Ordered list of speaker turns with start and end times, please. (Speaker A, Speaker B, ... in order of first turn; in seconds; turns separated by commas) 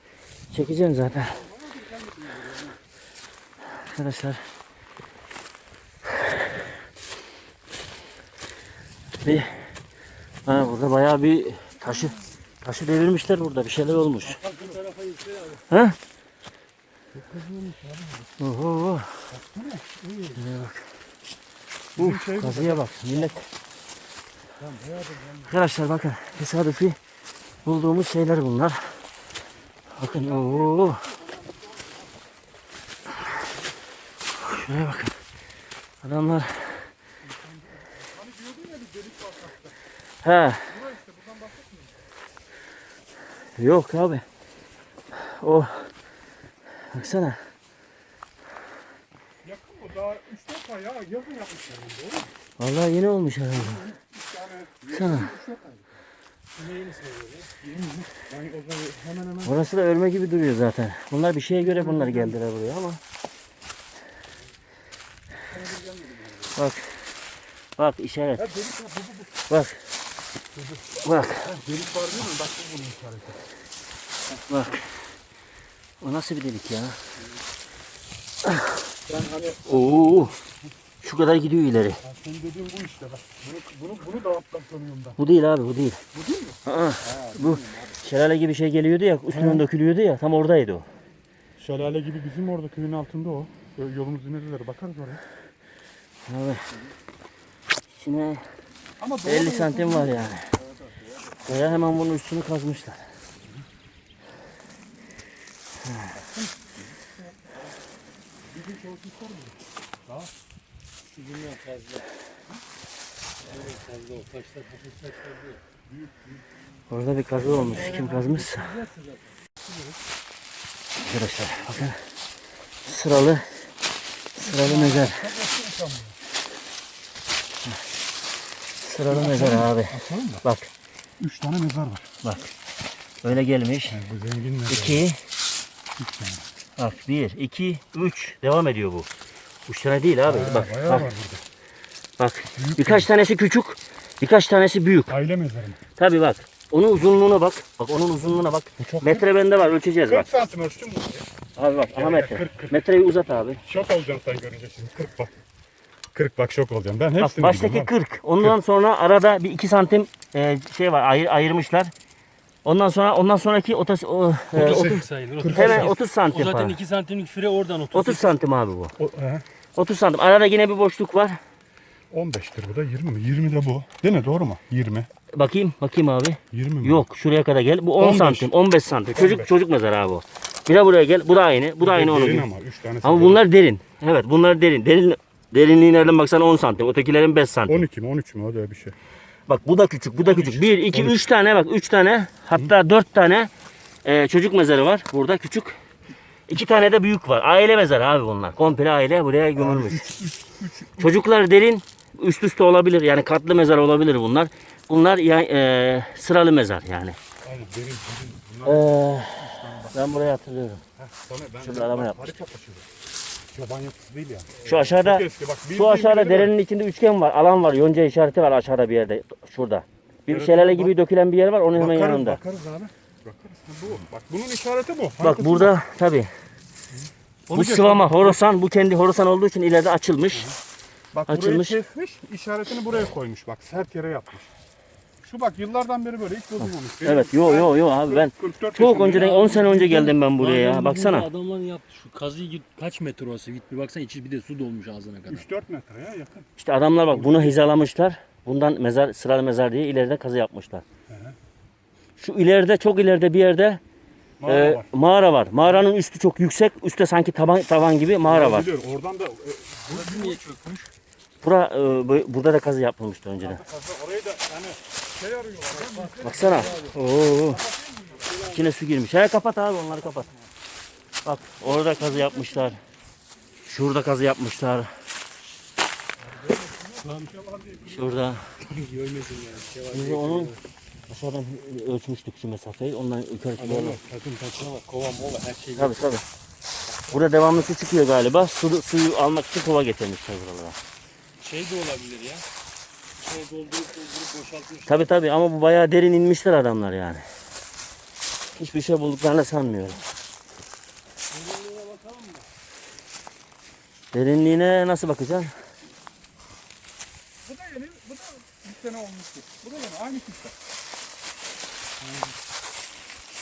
Speaker A: 0.5-1.4, Speaker B: 1.1-2.8, Speaker A: 3.8-4.4, Speaker A: 9.2-9.7, Speaker A: 10.4-14.4, Speaker B: 11.9-12.1, Speaker C: 14.2-15.6, Speaker B: 14.4-14.8, Speaker A: 15.7-15.9, Speaker B: 17.1-18.2, Speaker A: 18.4-19.2, Speaker B: 19.3-20.4, Speaker A: 20.4-20.9, Speaker B: 21.9-23.4, Speaker A: 22.0-23.5, Speaker B: 24.6-25.5, Speaker A: 25.4-27.0, Speaker A: 27.6-29.0, Speaker A: 29.9-31.1, Speaker B: 30.0-31.9, Speaker A: 34.4-35.2, Speaker A: 36.0-36.9, Speaker B: 37.2-39.8, Speaker A: 40.2-40.7, Speaker B: 40.6-42.0, Speaker A: 43.6-44.2, Speaker A: 45.1-45.9, Speaker A: 46.9-47.4, Speaker B: 49.4-52.3, Speaker A: 52.6-53.8, Speaker B: 53.5-56.0, Speaker A: 54.9-55.3, Speaker C: 56.5-57.5, Speaker B: 57.6-59.6, Speaker A: 59.4-63.0, Speaker B: 61.5-62.4, Speaker B: 65.5-66.6, Speaker A: 66.5-67.0, Speaker A: 67.8-68.4, Speaker B: 68.3-69.3, Speaker A: 69.5-69.8, Speaker B: 70.5-73.4, Speaker A: 71.0-71.5, Speaker A: 74.4-74.9, Speaker A: 76.0-77.0, Speaker A: 78.5-78.7, Speaker B: 79.1-80.3, Speaker A: 79.7-80.3, Speaker A: 81.0-82.0, Speaker B: 82.0-85.2, Speaker A: 85.2-86.0, Speaker B: 86.1-87.8, Speaker A: 86.6-90.8, Speaker B: 89.3-89.7, Speaker B: 91.6-95.2, Speaker A: 96.3-96.7, Speaker A: 97.9-98.4, Speaker B: 99.0-101.8, Speaker A: 99.2-100.5, Speaker A: 101.4-103.0, Speaker B: 106.1-107.5, Speaker B: 108.5-110.3, Speaker C: 111.1-112.1, Speaker C: 113.5-115.6, Speaker B: 115.9-116.4, Speaker A: 116.9-118.8, Speaker C: 117.5-119.3, Speaker B: 117.6-118.0, Speaker B: 119.6-120.0, Speaker A: 121.0-122.0, Speaker A: 122.8-123.6, Speaker A: 124.3-125.2, Speaker B: 124.4-126.2, Speaker A: 128.8-130.7, Speaker B: 129.1-130.4, Speaker B: 131.2-132.1, Speaker A: 132.2-132.5, Speaker A: 133.2-134.0, Speaker B: 133.9-135.1, Speaker A: 134.7-135.2, Speaker B: 136.0-136.4, Speaker A: 136.8-139.1, Speaker A: 139.7-141.1, Speaker B: 140.2-141.4, Speaker A: 142.2-145.1, Speaker B: 142.5-143.1, Speaker B: 145.1-145.8, Speaker A: 145.9-150.3, Speaker B: 148.8-149.3, Speaker B: 150.1-151.3, Speaker A: 151.6-153.6, Speaker B: 151.9-152.9, Speaker B: 153.6-155.3, Speaker B: 156.1-158.6, Speaker A: 157.2-161.9, Speaker A: 162.6-166.8, Speaker C: 164.5-168.3, Speaker B: 164.6-165.9, Speaker A: 167.9-168.9, Speaker B: 169.0-169.4, Speaker A: 169.8-171.4, Speaker B: 172.1-175.1, Speaker A: 175.3-182.5, Speaker B: 176.5-177.0, Speaker B: 178.0-178.5, Speaker B: 179.1-179.5, Speaker B: 181.8-183.4, Speaker A: 183.0-187.8, Speaker B: 187.7-188.9, Speaker A: 189.5-193.5, Speaker B: 190.2-191.2, Speaker A: 194.0-195.8, Speaker A: 196.5-200.1, Speaker B: 199.6-201.2, Speaker A: 201.0-207.2, Speaker B: 207.4-210.0, Speaker A: 208.6-210.8, Speaker B: 211.0-212.9, Speaker A: 211.6-212.3, Speaker B: 213.5-216.5, Speaker A: 214.6-222.4, Speaker B: 220.3-221.0, Speaker B: 221.7-225.8, Speaker A: 225.2-226.3, Speaker B: 226.9-228.4, Speaker A: 227.5-230.5, Speaker B: 231.1-234.5, Speaker A: 231.3-231.8, Speaker B: 235.2-240.2, Speaker A: 237.0-241.3, Speaker C: 239.1-239.5, Speaker C: 240.1-245.4, Speaker B: 245.3-246.5, Speaker A: 246.6-250.8, Speaker B: 247.1-247.6, Speaker B: 251.1-251.3, Speaker A: 252.2-253.8, Speaker B: 254.4-254.9, Speaker A: 254.4-258.7, Speaker B: 258.2-260.9, Speaker C: 259.9-260.7, Speaker A: 261.4-263.6, Speaker B: 263.4-266.8, Speaker C: 265.8-266.9, Speaker A: 266.2-267.6, Speaker B: 267.5-268.4, Speaker C: 268.3-268.7, Speaker A: 268.5-270.3, Speaker B: 270.1-270.4, Speaker A: 271.2-272.8, Speaker B: 271.6-272.7, Speaker A: 273.6-274.9, Speaker B: 276.2-278.1, Speaker C: 277.0-277.3, Speaker A: 277.8-278.5, Speaker C: 278.6-280.6, Speaker A: 279.9-280.5, Speaker A: 281.1-284.0, Speaker C: 283.6-286.0, Speaker B: 283.7-284.4, Speaker A: 285.8-286.2, Speaker A: 287.1-290.8, Speaker C: 291.4-292.4, Speaker C: 293.2-295.1, Speaker A: 294.9-297.2, Speaker A: 298.5-300.0, Speaker C: 301.3-302.5, Speaker A: 304.1-305.5, Speaker B: 307.4-310.5